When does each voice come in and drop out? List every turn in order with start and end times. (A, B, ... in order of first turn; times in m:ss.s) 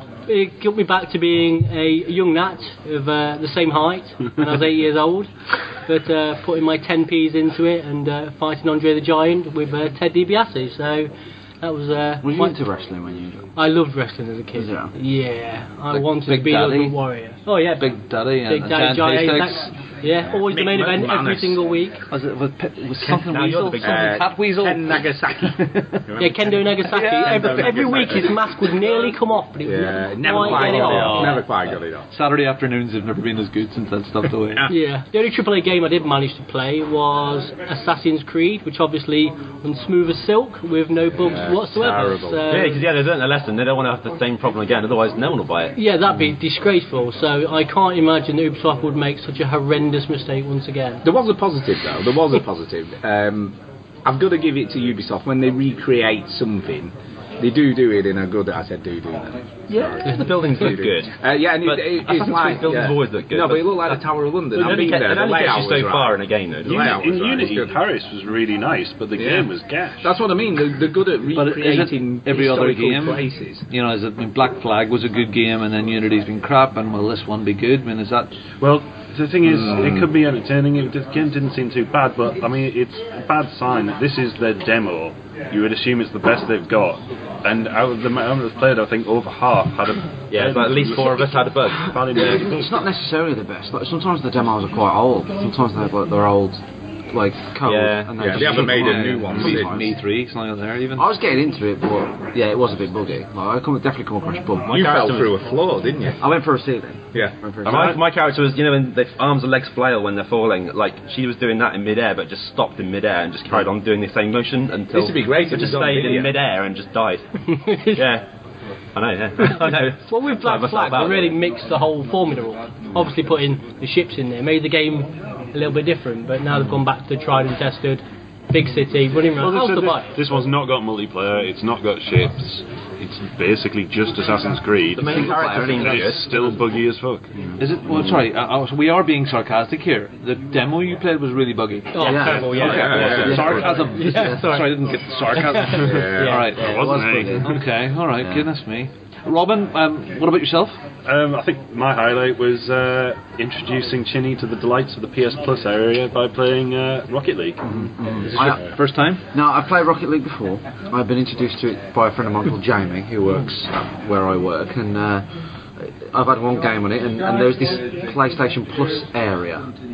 0:00.3-0:12.6 A
0:12.2-0:13.5 B
0:13.6-0:17.8 A
0:14.5-0:14.9 B
0:15.9-0:17.0 C
0:17.5-0:19.7 C
0:18.5-0:22.0 A
0:20.2-0:21.6 D
0:22.1-0:25.8 C
0:23.0-0:24.2 E
0:23.7-0:28.4 D
0:26.2-0:31.4 A
0:26.9-0:28.0 C
0:29.6-0:32.1 D
0:30.4-0:34.7 C
0:34.7-0:42.8 A
0:41.3-0:42.4 D
0:42.5-0:45.8 E
0:45.8-0:51.0 A
0:51.0-1:07.7 D
0:59.7-1:04.0 E
1:04.5-1:07.3 E
1:04.6-1:05.1 F
1:06.7-1:10.1 F
1:09.2-1:13.6 D
1:11.3-1:18.3 C
1:18.6-1:32.9 F
1:19.4-1:20.1 D
1:30.3-1:32.0 E
1:32.0-1:40.0 B
1:37.6-1:38.8 E
1:38.2-1:39.8 D
1:38.4-1:41.2 C
1:41.0-1:44.8 B
1:44.7-1:45.4 E
1:44.7-1:46.2 D
1:46.2-1:48.0 B
1:47.6-1:57.3 E
1:54.9-1:56.4 D
1:57.6-1:58.0 A
1:57.9-1:58.2 E
1:59.0-2:01.4 E
1:59.5-2:10.1 A
2:09.3-2:17.3 F
2:15.0-2:16.6 E
2:17.6-2:30.8 C
2:22.0-2:22.8 A
2:22.0-2:24.6 B
2:22.3-2:23.5 E
2:22.6-2:23.6 D
2:22.7-2:23.2 F
2:24.0-2:24.7 A
2:25.4-2:26.4 A
2:25.8-2:26.4 D
2:26.2-2:27.6 B
2:26.6-2:27.6 F
2:28.2-2:28.5 B
2:31.0-2:37.6 F
2:37.7-2:38.6 B
2:38.2-2:39.2 C
2:39.3-2:49.7 B